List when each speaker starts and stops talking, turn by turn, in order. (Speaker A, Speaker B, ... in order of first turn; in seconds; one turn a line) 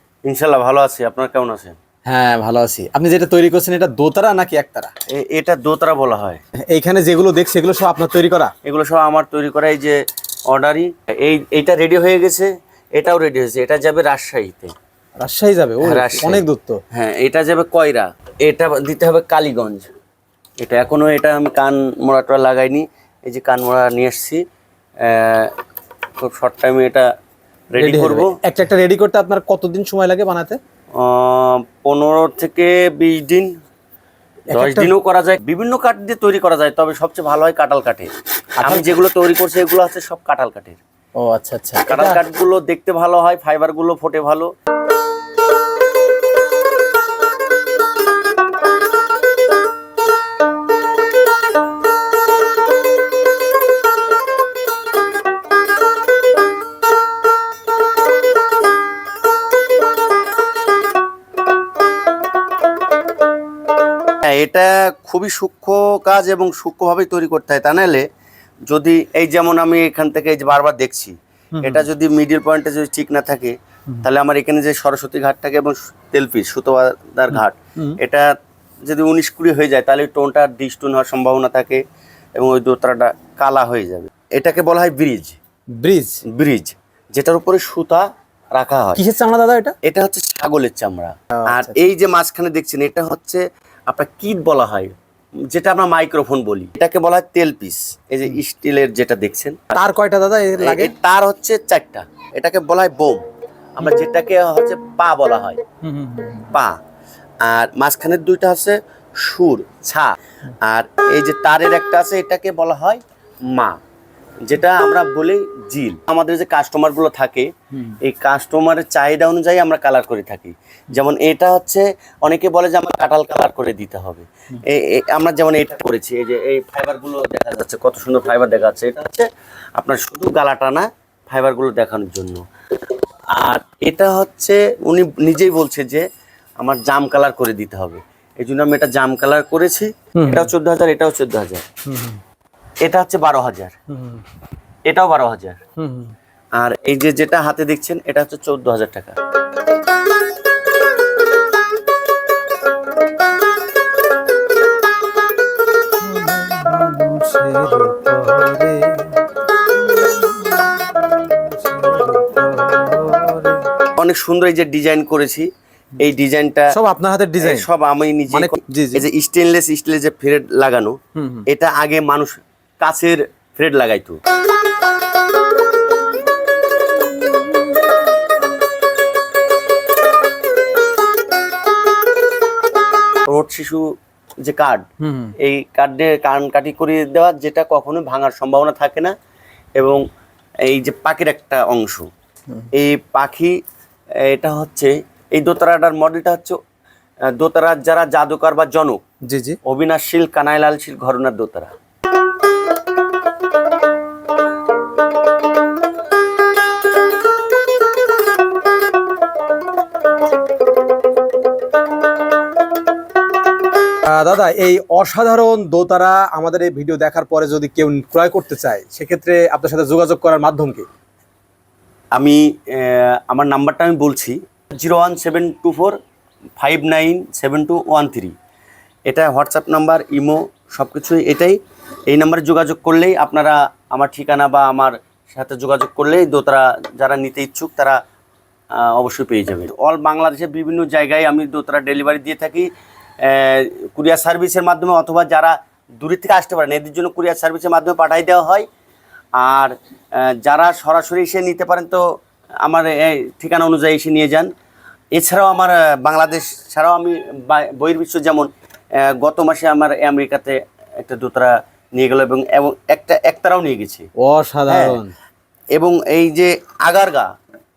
Speaker A: 0.2-1.8
Speaker B: 2.0-4.9
Speaker A: 5.1-6.4
Speaker B: 6.7-8.5
Speaker A: 8.6-10.0
Speaker A: 10.5-14.7
Speaker B: 15.2-16.8
Speaker A: 15.8-19.9
Speaker A: 20.6-24.4
Speaker A: 25.0-25.5
Speaker A: 26.2-27.1
Speaker A: 27.7-28.3
Speaker B: 27.8-30.6
Speaker A: 31.0-33.5
Speaker B: 34.5-34.9
Speaker A: 34.5-38.1
Speaker B: 38.6-38.9
Speaker A: 38.6-40.8
Speaker B: 41.2-42.2
Speaker A: 41.9-44.5
Speaker A: 64.2-68.0
Speaker A: 68.7-78.2
Speaker B: 71.5-71.8
Speaker B: 77.4-78.0
Speaker A: 78.8-81.8
Speaker A: 82.4-85.4
Speaker B: 85.8-86.2
Speaker A: 86.3-89.0
Speaker B: 89.0-89.7
Speaker A: 89.8-94.9
Speaker B: 91.4-91.8
Speaker A: 95.5-99.7
Speaker B: 99.7-100.9
Speaker A: 100.6-103.2
Speaker A: 103.8-105.6
Speaker B: 105.8-106.5
Speaker A: 107.5-113.8
Speaker A: 114.5-132.4
Speaker A: 133.3-136.0
Speaker A: 136.6-141.7
Speaker B: 140.2-140.5
Speaker B: 141.9-142.2
Speaker A: 142.8-143.7
Speaker B: 143.9-144.2
Speaker A: 144.9-145.6
Speaker B: 145.8-146.1
Speaker A: 146.6-149.2
Speaker B: 156.0-159.2
Speaker B: 159.9-163.6
Speaker A: 163.9-165.5
Speaker A: 166.0-166.7
Speaker B: 166.7-167.7
Speaker A: 167.4-170.9
Speaker B: 168.3-169.1
Speaker B: 171.2-171.4
Speaker A: 171.5-174.2
Speaker A: 183.3-183.8
Speaker A: 184.4-184.8
Speaker B: 185.0-185.3
Speaker A: 185.4-189.1
Speaker A: 189.8-190.0
Speaker A: 190.7-192.1
Speaker A: 192.7-193.5
Speaker A: 194.2-196.6
Speaker A: 197.4-199.0
Speaker B: 199.3-199.6
Speaker A: 199.6-201.7
Speaker B: 214.1-220.8
Speaker A: 222.1-225.9
Speaker A: 226.6-228.3
Speaker A: 229.1-238.0
Speaker A: 238.8-242.7
Speaker A: 243.2-248.7
Speaker A: 249.4-252.0
Speaker A: 252.6-254.5
Speaker A: 255.2-258.5
Speaker A: 259.0-264.1
Speaker B: 264.2-265.1
Speaker A: 264.7-265.0
Speaker A: 265.8-267.3